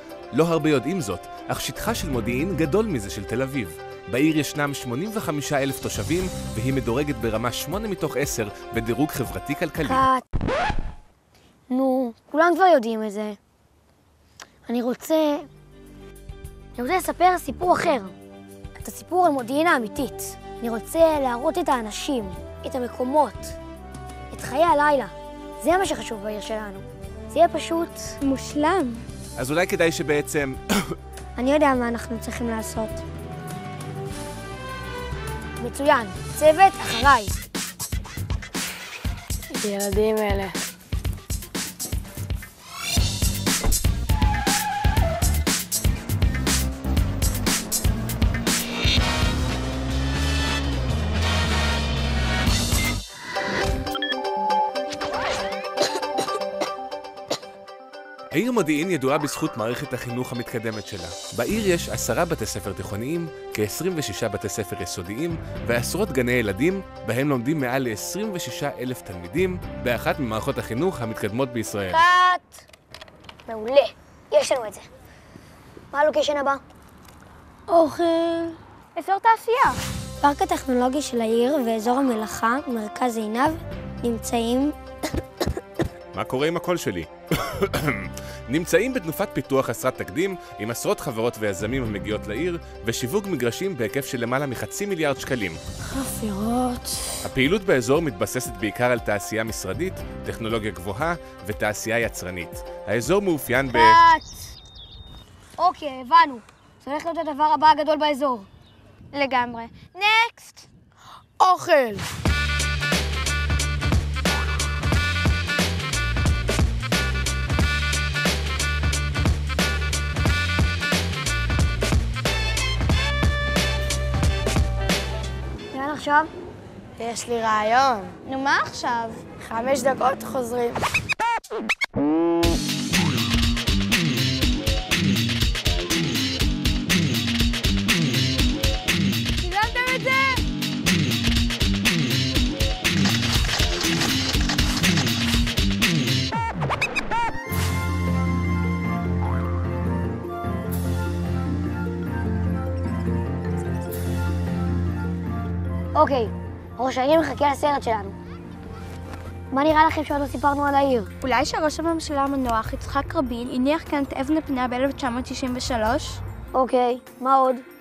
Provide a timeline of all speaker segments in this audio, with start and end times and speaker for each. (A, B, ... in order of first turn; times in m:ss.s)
0:00.3-0:10.0 A
0:09.8-0:10.3 B
0:11.7-0:13.4 B
0:14.7-0:15.5 B
0:16.8-0:18.2 B
0:18.8-0:23.6 B
0:24.3-0:28.2 B
0:28.2-0:29.0 C
0:29.4-0:31.0 A
0:31.4-0:33.0 B
0:35.6-0:37.4 B
0:39.6-0:40.6 D
0:58.3-1:12.0 A
1:11.9-1:12.6 B
1:13.5-1:14.9 B
1:15.9-1:16.6 B
1:17.7-1:18.6 B
1:19.0-1:19.8 C
1:20.2-1:24.8 B
1:26.1-1:35.6 A
1:35.8-1:37.1 D
1:37.2-1:44.0 A
1:43.7-1:44.4 B
1:45.6-1:48.5 B
1:49.1-1:50.6 C
1:51.4-1:52.0 D
2:05.7-2:06.3 B
2:07.0-2:08.2 D
2:08.3-2:09.2 C
2:09.4-2:10.8 D
2:19.4-2:20.4 C
2:36.0-2:38.2 B
2:39.5-2:41.1 B
2:41.2-2:46.2 C
2:46.5-2:47.6 B